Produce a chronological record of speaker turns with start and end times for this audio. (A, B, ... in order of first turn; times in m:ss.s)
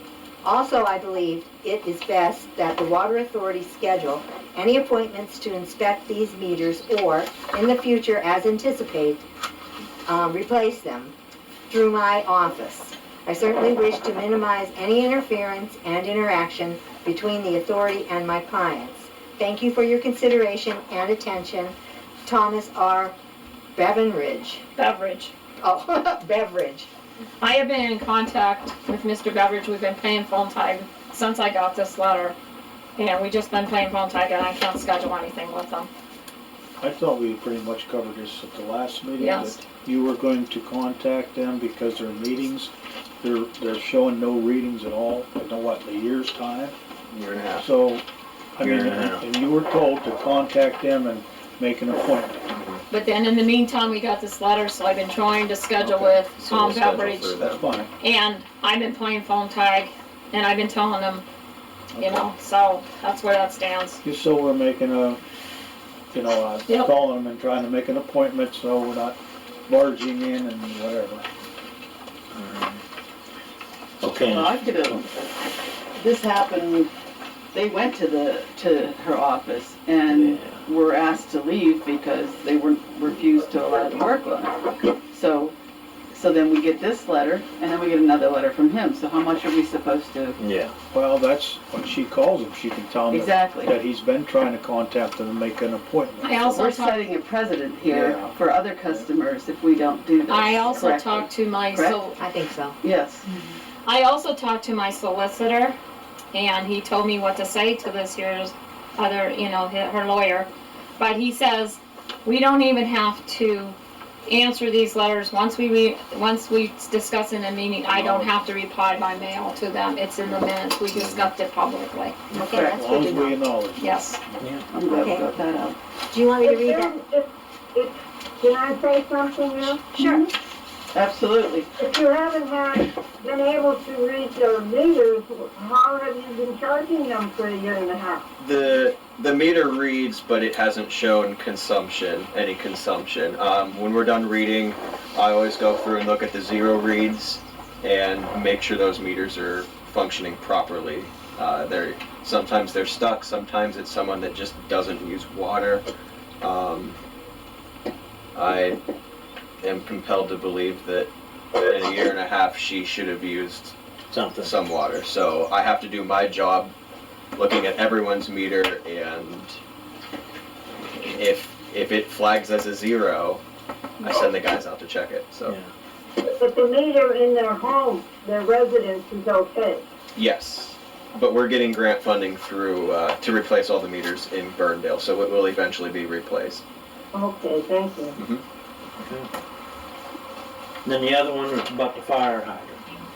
0:00.4-0:09.2 A
0:10.1-0:11.1 A
0:11.7-0:23.1 A
0:23.8-0:24.6 A
0:24.8-0:25.3 B
0:25.6-0:26.9 A
0:27.4-0:32.3 B
0:33.0-0:35.9 B
0:36.8-0:46.8 C
0:39.2-0:39.6 B
0:47.1-0:47.6 D
0:47.6-0:48.0 C
0:48.5-0:52.4 C
0:48.6-0:49.2 E
0:52.5-0:52.8 D
0:52.9-0:57.4 B
0:55.8-0:56.1 C
0:56.4-0:57.8 D
0:57.4-0:57.9 C
0:58.0-1:01.2 B
1:01.9-1:02.3 C
1:02.0-1:04.0 B
1:04.0-1:05.2 C
1:06.1-1:11.3 C
1:06.7-1:06.9 B
1:12.3-1:12.8 E
1:14.0-1:15.0 E
1:14.2-1:15.1 F
1:16.0-1:16.9 F
1:17.5-1:25.5 F
1:20.1-1:20.6 E
1:26.1-1:30.4 F
1:30.4-1:30.7 E
1:30.9-1:36.4 C
1:33.1-1:33.7 F
1:36.2-1:37.1 B
1:36.4-1:42.0 F
1:37.8-1:38.4 C
1:40.3-1:42.2 B
1:42.2-1:42.8 A
1:42.8-1:43.2 F
1:43.8-1:45.8 B
1:46.3-2:02.2 B
1:57.9-1:58.3 C
2:00.9-2:01.3 E
2:02.3-2:03.4 A
2:02.4-2:02.8 F
2:02.5-2:04.5 C
2:03.8-2:04.2 B
2:04.4-2:04.6 E
2:04.7-2:05.8 F
2:04.9-2:05.2 A
2:06.1-2:06.9 A
2:06.4-2:09.9 G
2:09.8-2:10.2 A
2:10.0-2:10.3 F
2:10.9-2:11.7 F
2:11.8-2:18.2 G
2:18.4-2:35.8 D
2:36.4-2:37.0 D
2:38.3-2:38.8 D
2:39.6-2:43.8 D
2:44.1-2:44.6 E
2:44.4-2:46.7 D
2:47.4-2:49.6 D
2:51.1-2:53.4 D
2:54.0-2:55.6 D
2:55.4-2:55.7 E
2:56.4-2:59.8 G
3:00.1-3:06.6 D
3:07.1-3:08.2 G
3:08.2-3:08.4 D
3:09.0-3:09.3 E
3:10.8-3:12.8 E